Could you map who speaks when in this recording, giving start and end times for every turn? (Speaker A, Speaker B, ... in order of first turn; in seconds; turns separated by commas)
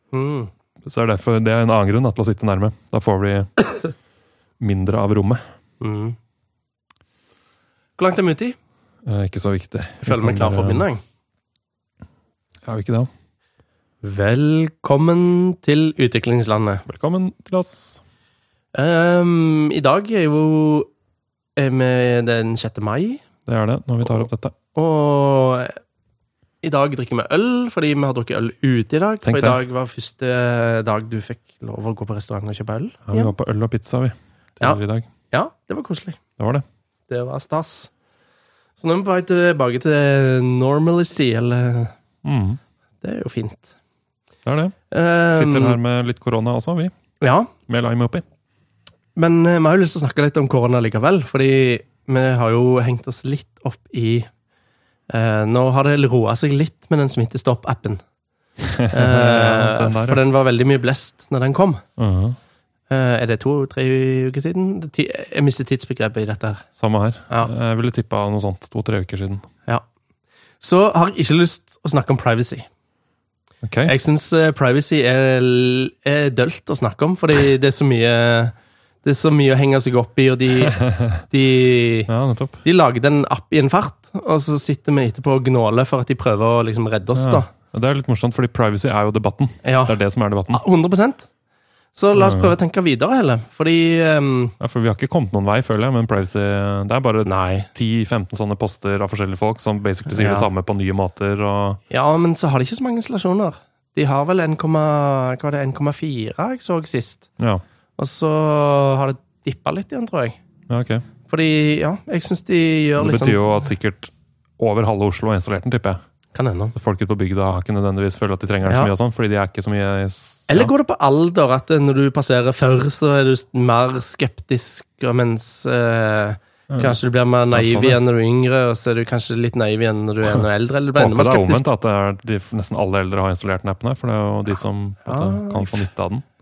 Speaker A: 0.1-0.5, Speaker B: 0.8-3.5, Speaker B: 4.6-5.4, Speaker A: 5.8-6.2, Speaker A: 8.0-8.6, Speaker B: 9.1-10.8, Speaker A: 10.0-11.0, Speaker B: 12.6-13.1, Speaker A: 14.0-16.8, Speaker B: 16.9-18.0, Speaker A: 18.7-20.9, Speaker A: 21.6-23.2, Speaker B: 23.4-24.5, Speaker A: 24.7-25.8, Speaker A: 26.6-33.3, Speaker B: 29.2-29.6, Speaker B: 33.1-35.1, Speaker A: 35.3-36.2, Speaker B: 36.4-36.6, Speaker A: 37.1-37.9, Speaker A: 38.8-41.9, Speaker B: 42.2-42.6, Speaker A: 43.0-43.7, Speaker B: 44.5-44.8, Speaker A: 44.9-45.8, Speaker B: 45.3-46.9, Speaker A: 47.2-47.5, Speaker B: 47.7-48.2, Speaker A: 49.1-54.3, Speaker A: 55.1-58.0, Speaker B: 58.6-60.2, Speaker A: 58.9-61.8, Speaker B: 62.0-62.4, Speaker A: 62.9-66.6, Speaker B: 66.8-69.5, Speaker A: 70.6-72.7, Speaker B: 73.6-73.9, Speaker A: 73.8-82.1, Speaker B: 80.6-81.2, Speaker B: 82.1-82.6, Speaker A: 82.6-87.5, Speaker B: 87.1-90.6, Speaker A: 89.6-89.9, Speaker A: 90.5-91.3, Speaker A: 91.9-94.5, Speaker B: 92.1-92.5, Speaker B: 94.6-101.8, Speaker A: 97.2-97.7, Speaker A: 100.1-100.5, Speaker A: 101.9-107.3, Speaker A: 108.0-110.4, Speaker B: 110.7-111.0, Speaker A: 111.3-113.4, Speaker B: 113.0-116.0, Speaker A: 116.3-116.7, Speaker B: 116.7-120.7, Speaker A: 120.5-131.6, Speaker B: 126.7-127.0, Speaker B: 127.5-128.0, Speaker B: 130.9-136.2, Speaker A: 135.0-135.8